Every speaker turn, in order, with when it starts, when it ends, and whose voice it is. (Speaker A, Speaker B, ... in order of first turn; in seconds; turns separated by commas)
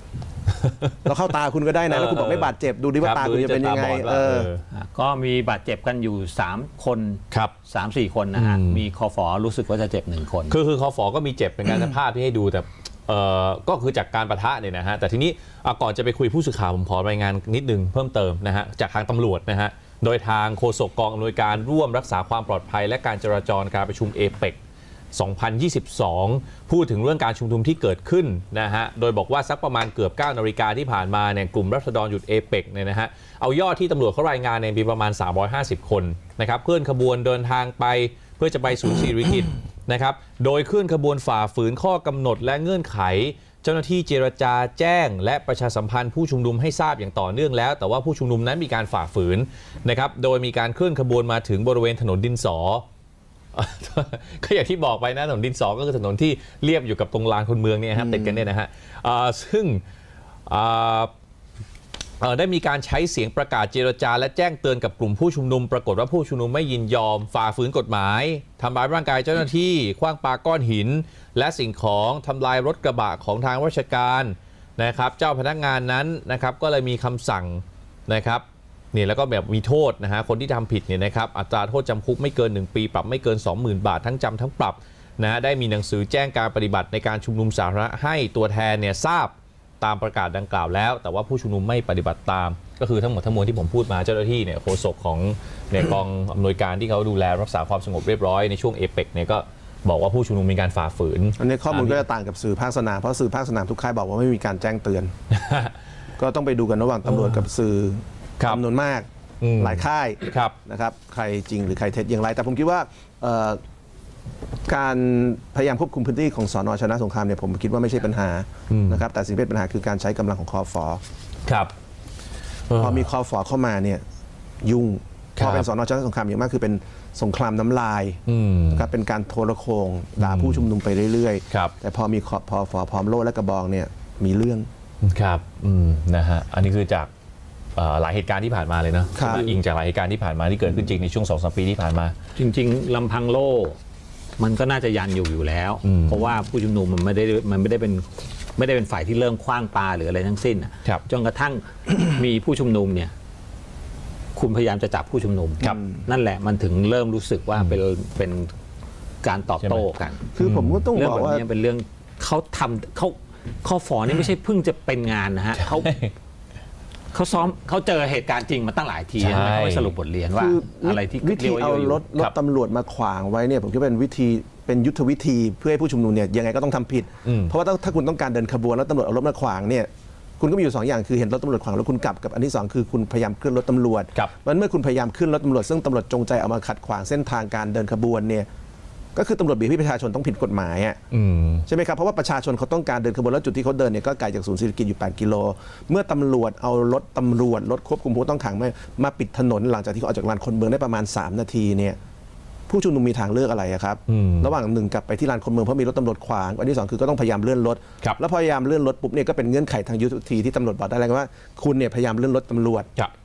Speaker A: 0.6-1.0, Speaker B: 1.1-4.5, Speaker A: 1.9-4.6, Speaker C: 4.7-10.6, Speaker A: 8.3-8.8, Speaker A: 10.5-24.6, Speaker A: 25.1-52.9, Speaker A: 53.5-59.8, Speaker B: 57.9-58.5, Speaker A: 60.5-61.1, Speaker A: 62.2-102.0, Speaker B: 101.4-105.1, Speaker A: 105.3-105.7, Speaker B: 106.2-109.1, Speaker A: 107.1-107.4, Speaker A: 109.4-110.5, Speaker B: 109.6-113.6, Speaker B: 114.7-121.0, Speaker A: 118.7-119.0, Speaker A: 121.5-121.7, Speaker A: 122.7-123.1, Speaker B: 122.8-124.0, Speaker B: 124.6-128.2, Speaker A: 125.4-125.7, Speaker A: 128.3-128.9, Speaker B: 128.7-134.7, Speaker A: 130.2-130.7, Speaker A: 135.0-137.1, Speaker A: 137.8-142.2, Speaker B: 139.2-139.5, Speaker C: 142.4-143.8, Speaker C: 144.4-153.1, Speaker A: 145.8-146.3, Speaker C: 154.4-158.5, Speaker C: 159.2-160.3, Speaker B: 160.3-161.4, Speaker A: 160.4-160.9, Speaker C: 160.9-165.9, Speaker A: 165.6-166.1, Speaker C: 167.1-172.0, Speaker A: 169.2-169.9, Speaker B: 170.4-179.9, Speaker A: 177.2-177.6, Speaker B: 180.4-188.5, Speaker B: 189.2-191.0, Speaker A: 191.1-191.7, Speaker B: 191.7-202.0, Speaker B: 202.7-212.9, Speaker A: 204.1-204.5